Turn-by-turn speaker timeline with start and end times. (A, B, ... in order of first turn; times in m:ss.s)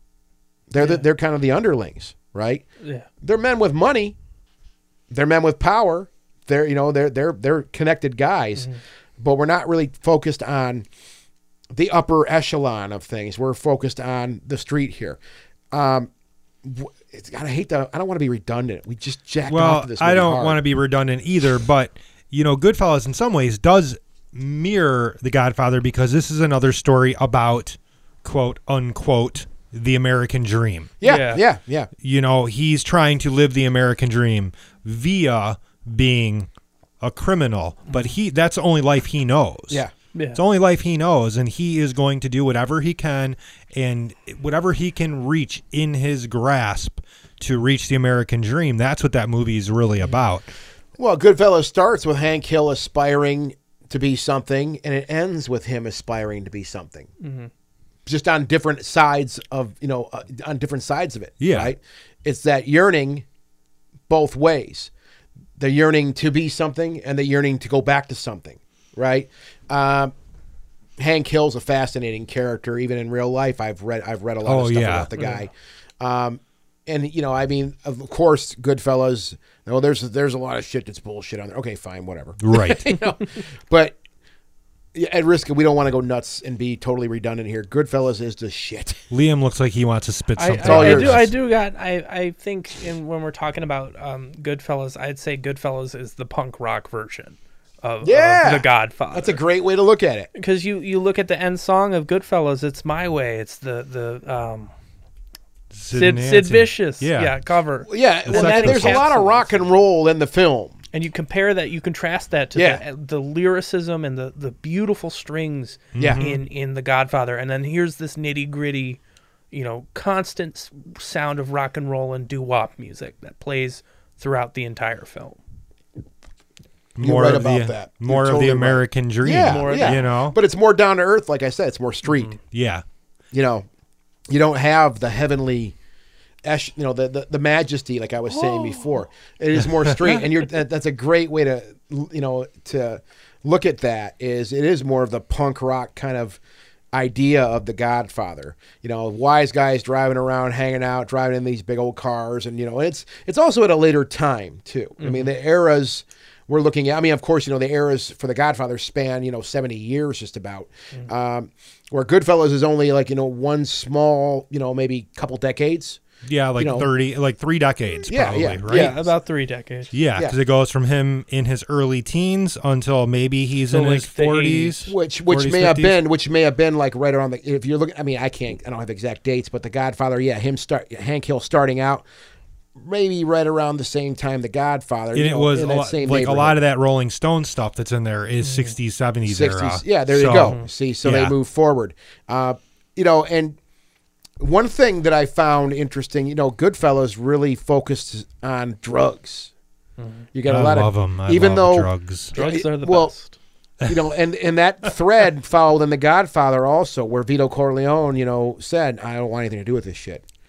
0:00.7-0:02.6 A
0:00.8-0:01.0 B
0:03.2-0:04.2 A
0:05.1-0:10.9 A
0:11.7-0:15.2 A
0:15.7-0:16.1 A
0:16.6-0:20.6 A
0:19.5-0:30.9 C
0:31.0-0:31.9 A
0:31.0-0:31.4 B
0:32.0-0:36.5 C
0:37.0-0:39.8 C
0:40.1-0:40.4 B
0:40.3-0:50.5 C
0:51.0-0:57.1 A
0:57.2-0:57.5 B
0:58.1-1:03.2 A
1:01.4-1:01.7 C
1:04.1-1:04.9 A
1:05.6-1:10.1 A
1:11.0-1:24.0 A
1:14.4-1:15.1 C
1:15.2-1:15.5 B
1:22.4-1:22.9 C
1:24.9-1:29.0 A
1:29.1-1:31.3 C
1:30.4-1:39.4 B
1:30.6-1:31.2 A
1:38.0-1:40.3 A
1:40.4-1:44.7 B
1:45.7-1:47.3 C
1:45.9-1:49.7 B
1:47.9-1:50.8 A
1:48.3-1:49.0 C
1:50.9-1:59.0 B
1:52.6-1:52.8 A
1:55.9-1:56.4 C
1:56.0-1:56.2 A
1:59.5-2:05.4 B
2:07.0-2:10.4 C
2:07.0-2:12.4 A
2:09.4-2:10.0 B
2:12.1-2:12.3 B
2:12.5-2:12.8 C
2:13.3-2:13.7 A
2:14.3-2:15.8 A
2:16.4-2:26.4 A
2:18.3-2:19.0 B
2:26.9-2:46.0 A
2:35.0-2:35.3 B
2:46.2-2:49.1 C
2:46.6-2:46.9 A
2:48.1-2:49.0 A
2:48.7-2:49.9 B
2:49.9-2:56.0 C
2:53.7-2:54.8 B
2:54.9-3:02.0 A
3:02.8-3:06.6 A
3:05.1-3:11.4 C
3:08.4-3:08.8 B
3:09.2-3:13.6 A
3:14.4-3:19.5 A
3:20.0-3:20.3 B
3:20.3-3:23.1 A
3:20.5-3:22.3 C
3:22.3-3:23.4 B
3:23.9-3:30.2 A